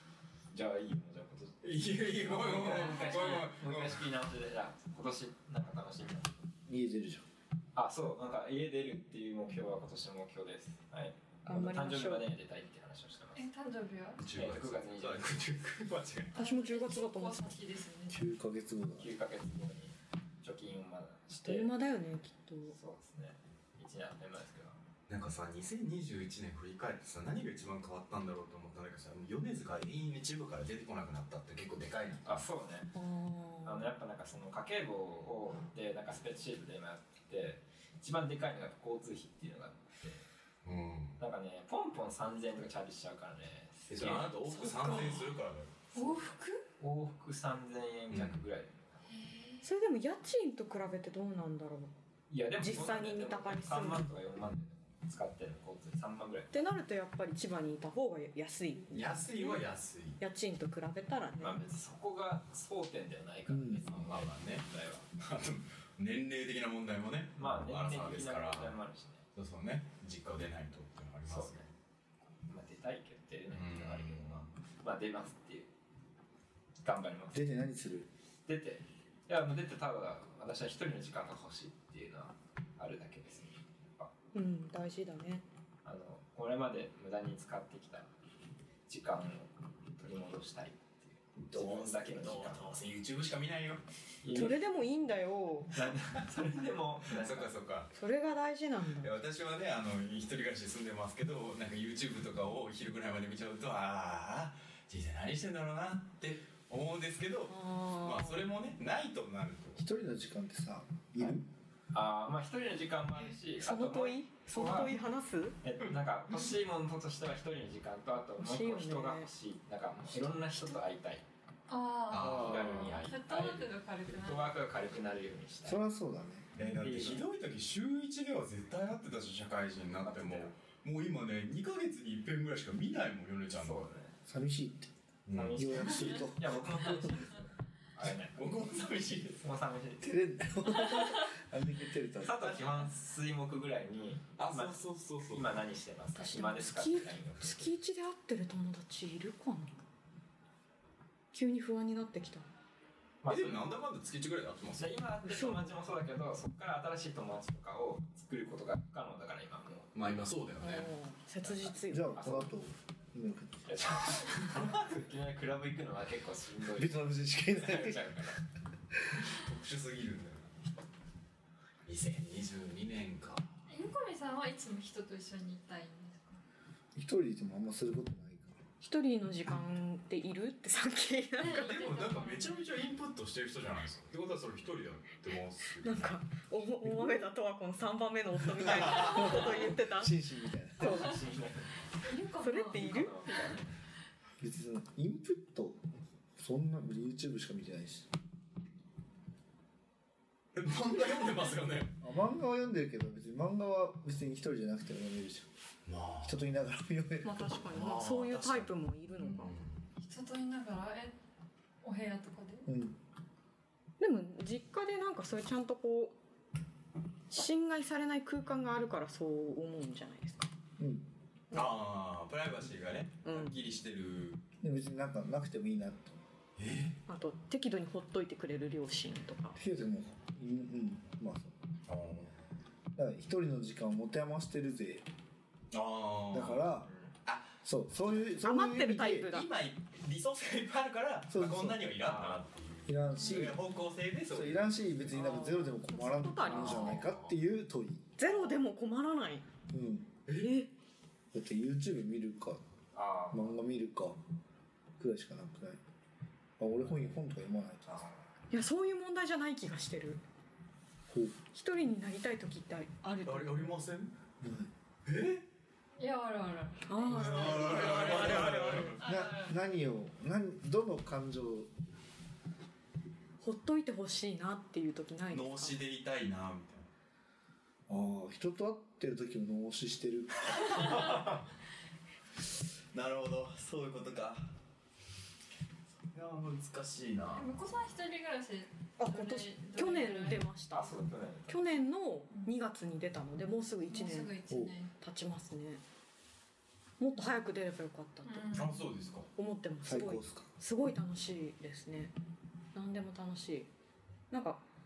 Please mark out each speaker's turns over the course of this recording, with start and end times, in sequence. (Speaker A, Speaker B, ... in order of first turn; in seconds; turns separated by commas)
Speaker A: 0.5-6.5, Speaker B: 1.6-4.1, Speaker C: 2.8-3.3, Speaker D: 6.7-7.2, Speaker A: 7.7-13.5, Speaker E: 11.4-12.3, Speaker C: 13.3-14.2, Speaker B: 14.2-16.4, Speaker A: 14.3-15.5, Speaker C: 16.3-18.2, Speaker E: 16.4-17.6, Speaker D: 18.1-19.1, Speaker A: 19.0-21.7, Speaker E: 21.4-22.8, Speaker A: 22.7-24.8, Speaker B: 25.1-32.5, Speaker A: 32.2-32.9, Speaker E: 32.9-33.9, Speaker A: 33.6-40.2, Speaker B: 40.6-41.2, Speaker A: 41.2-44.3, Speaker B: 43.9-45.9, Speaker E: 44.4-45.3, Speaker C: 45.9-46.6, Speaker A: 46.8-48.9, Speaker B: 48.1-48.4, Speaker C: 49.1-49.6, Speaker E: 49.6-51.9, Speaker A: 52.3-56.6, Speaker E: 52.6-54.1, Speaker E: 56.5-59.6, Speaker B: 58.9-60.2, Speaker E: 60.2-61.6, Speaker A: 61.4-65.1, Speaker D: 63.5-63.8, Speaker B: 63.9-64.6, Speaker B: 65.2-68.8, Speaker A: 67.4-69.2, Speaker B: 69.3-71.6, Speaker A: 71.2-71.7, Speaker A: 72.5-75.7, Speaker B: 73.5-74.5, Speaker A: 76.8-77.5, Speaker D: 77.3-78.1, Speaker A: 78.5-84.1, Speaker E: 84.3-85.4, Speaker A: 85.8-88.1, Speaker A: 88.9-92.8, Speaker B: 91.5-93.8, Speaker A: 94.2-94.6, Speaker E: 94.3-95.7, Speaker A: 95.7-97.5, Speaker B: 97.1-97.9, Speaker E: 97.9-99.1, Speaker B: 99.0-109.8, Speaker E: 107.5-108.5, Speaker D: 109.8-111.4, Speaker A: 111.9-115.0, Speaker E: 113.6-115.6, Speaker A: 115.6-121.2, Speaker E: 118.4-119.3, Speaker C: 121.7-124.6, Speaker B: 122.1-123.0, Speaker A: 122.1-125.8, Speaker D: 125.6-126.5, Speaker B: 126.6-133.9, Speaker A: 126.6-127.3, Speaker A: 130.0-130.6, Speaker A: 133.5-134.1, Speaker D: 134.2-134.9, Speaker B: 135.3-136.3, Speaker A: 135.3-138.6, Speaker D: 135.5-137.3, Speaker B: 138.3-139.4, Speaker A: 139.4-141.2, Speaker D: 140.0-142.6, Speaker A: 142.2-147.8, Speaker B: 142.4-142.8, Speaker B: 144.4-145.5, Speaker E: 146.2-149.8, Speaker E: 151.3-152.4, Speaker A: 153.2-153.8, Speaker B: 153.3-155.0, Speaker A: 154.8-159.9, Speaker E: 155.3-155.8, Speaker B: 159.9-160.9, Speaker E: 160.6-162.2, Speaker A: 161.4-162.5, Speaker D: 161.8-163.9, Speaker A: 163.7-168.4, Speaker D: 166.8-168.3, Speaker B: 169.3-170.5, Speaker B: 171.8-173.5, Speaker C: 173.7-176.4, Speaker D: 176.9-178.6, Speaker E: 178.8-181.9, Speaker C: 181.4-182.7, Speaker B: 181.4-186.2, Speaker E: 185.8-190.1, Speaker D: 186.8-187.2, Speaker B: 188.6-189.3, Speaker D: 189.0-191.0, Speaker E: 190.8-191.2, Speaker A: 190.8-191.9, Speaker C: 192.0-193.3, Speaker E: 192.4-193.6, Speaker A: 192.7-193.7, Speaker D: 194.4-195.8, Speaker D: 196.3-198.1, Speaker B: 200.5-201.9, Speaker D: 202.0-205.5, Speaker B: 205.8-206.4, Speaker D: 206.2-207.7, Speaker E: 207.2-209.5, Speaker B: 207.7-208.7, Speaker B: 209.3-209.9, Speaker C: 210.0-211.2, Speaker C: 211.8-212.7, Speaker D: 212.7-213.0, Speaker E: 214.0-216.2, Speaker E: 217.3-220.5, Speaker D: 220.8-221.1, Speaker E: 221.5-221.8, Speaker B: 221.5-224.4, Speaker E: 223.2-223.6, Speaker D: 224.6-226.2, Speaker B: 226.6-227.0, Speaker E: 227.1-229.6, Speaker D: 229.5-231.5, Speaker B: 231.9-232.3, Speaker D: 232.9-235.1, Speaker B: 235.7-236.7, Speaker D: 236.3-236.9, Speaker A: 236.8-237.1, Speaker B: 237.2-237.5, Speaker D: 237.6-239.3, Speaker E: 238.4-239.5, Speaker B: 239.2-244.8, Speaker D: 241.3-241.9, Speaker A: 242.0-242.4, Speaker D: 242.9-243.6, Speaker C: 243.1-243.4, Speaker D: 244.3-248.1, Speaker E: 245.1-247.0, Speaker B: 246.5-247.3, Speaker E: 248.2-249.4, Speaker A: 248.3-248.5, Speaker D: 249.7-250.1, Speaker E: 250.3-250.7, Speaker D: 251.3-252.6, Speaker A: 252.9-253.6, Speaker D: 253.3-254.2, Speaker D: 255.0-255.8, Speaker D: 256.6-258.1, Speaker A: 256.9-257.1, Speaker A: 257.9-258.2, Speaker E: 258.5-260.2, Speaker D: 261.1-261.4, Speaker E: 261.5-263.8, Speaker B: 263.2-264.1, Speaker D: 264.4-264.7, Speaker B: 265.1-265.4, Speaker C: 266.0-268.3, Speaker E: 266.9-269.0, Speaker B: 267.1-269.0, Speaker D: 268.1-268.5, Speaker C: 269.0-269.6, Speaker D: 269.0-271.7, Speaker E: 273.4-275.8, Speaker B: 275.3-276.9, Speaker D: 277.9-281.2, Speaker B: 280.6-281.4, Speaker B: 282.9-284.5, Speaker B: 286.1-287.5, Speaker C: 287.3-290.5, Speaker E: 289.0-290.9, Speaker A: 290.7-291.8, Speaker E: 291.5-294.3, Speaker C: 293.9-294.9, Speaker D: 294.5-294.8, Speaker E: 295.0-295.8, Speaker E: 297.0-298.7, Speaker C: 298.2-298.8, Speaker B: 298.5-299.3, Speaker E: 299.4-302.1, Speaker D: 299.8-300.5, Speaker E: 302.7-303.7, Speaker E: 304.3-304.6